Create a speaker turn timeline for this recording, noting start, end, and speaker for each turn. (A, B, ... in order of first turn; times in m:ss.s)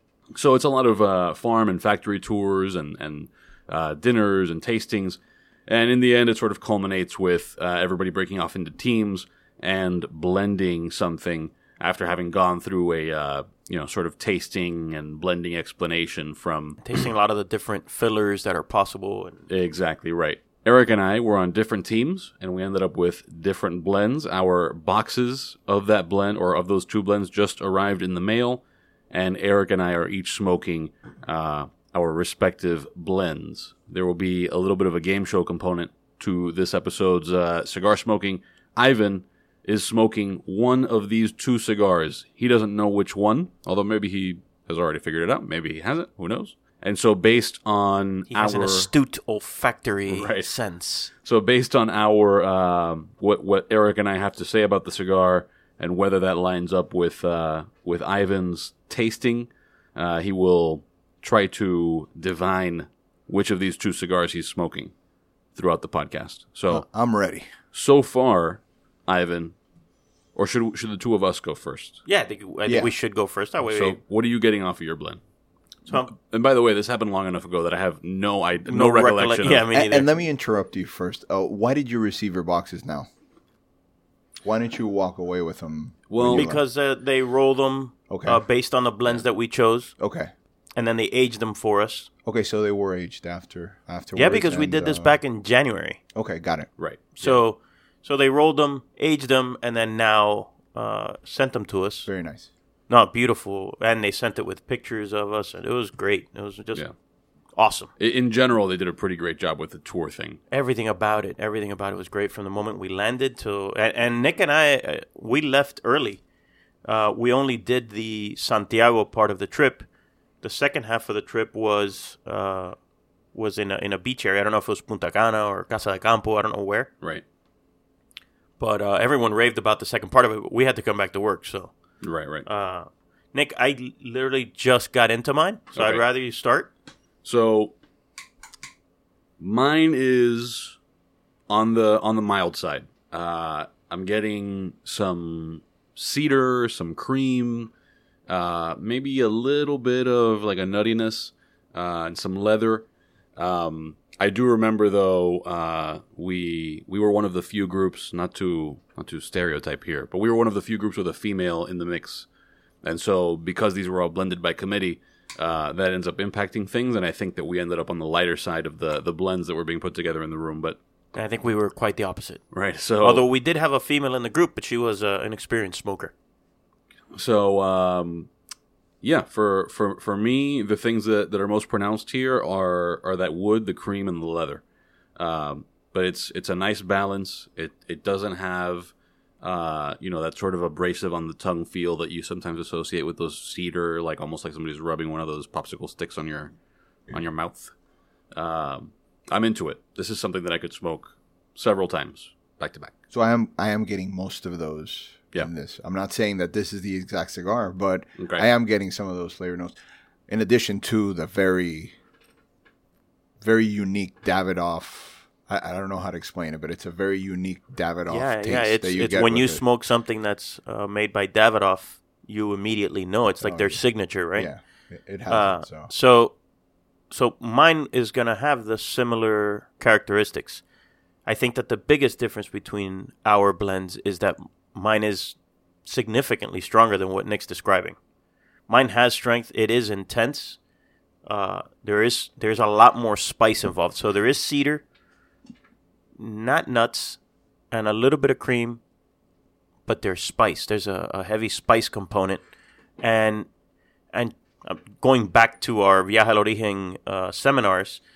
0:00.4-0:17.0 A
0:16.8-0:19.5 B
0:19.5-0:48.9 A
0:48.3-0:51.1 B
0:50.1-0:50.5 A
0:51.2-1:04.9 A
1:05.6-1:06.9 A
1:06.7-1:07.5 C
1:07.7-1:09.6 A
1:10.4-1:12.0 A
1:12.1-1:14.0 B
1:12.7-1:12.9 C
1:13.7-1:15.2 A
1:15.9-1:16.1 B
1:16.0-1:19.6 A
1:18.7-1:20.1 B
1:19.7-1:23.1 C
1:24.4-1:26.6 C
1:26.1-1:26.5 A
1:26.3-1:30.0 B
1:28.1-1:28.4 C
1:30.0-1:30.3 C
1:30.8-1:32.1 B
1:32.2-1:35.2 C
1:34.2-1:36.0 B
1:36.1-1:36.7 C
1:36.8-1:37.4 A
1:37.2-1:42.1 B
1:42.1-1:42.5 C
1:42.9-1:46.9 B
1:47.6-1:47.9 B
1:48.0-1:50.4 A
1:50.5-1:56.2 B
1:56.8-1:59.9 B
2:00.4-2:02.8 B
2:03.3-2:06.9 B
2:08.6-2:11.8 B
2:12.0-2:12.5 A
2:12.4-2:16.7 B
2:15.8-2:16.0 A
2:17.2-2:17.8 A
2:19.4-2:20.8 A
2:21.5-2:27.7 A
2:28.3-2:42.3 A
2:42.8-2:50.8 A
2:51.1-2:52.4 B
2:52.5-2:53.2 A
2:53.0-2:56.1 B
2:57.1-2:58.3 A
2:59.0-3:04.6 A
3:05.2-3:16.5 A
3:17.1-3:17.8 A
3:18.3-3:22.9 A
3:23.1-3:29.8 C
3:28.2-3:28.5 A
3:30.3-3:32.0 C
3:33.4-3:39.6 C
3:38.1-3:44.5 B
3:43.4-3:45.9 C
3:45.3-3:46.4 B
3:47.1-3:50.6 B
3:51.3-3:58.0 B
3:58.7-4:00.6 B
4:01.3-4:04.8 B
4:06.2-4:07.2 B
4:07.7-4:08.8 B
4:09.9-4:12.4 B
4:13.0-4:13.5 B
4:14.1-4:18.0 B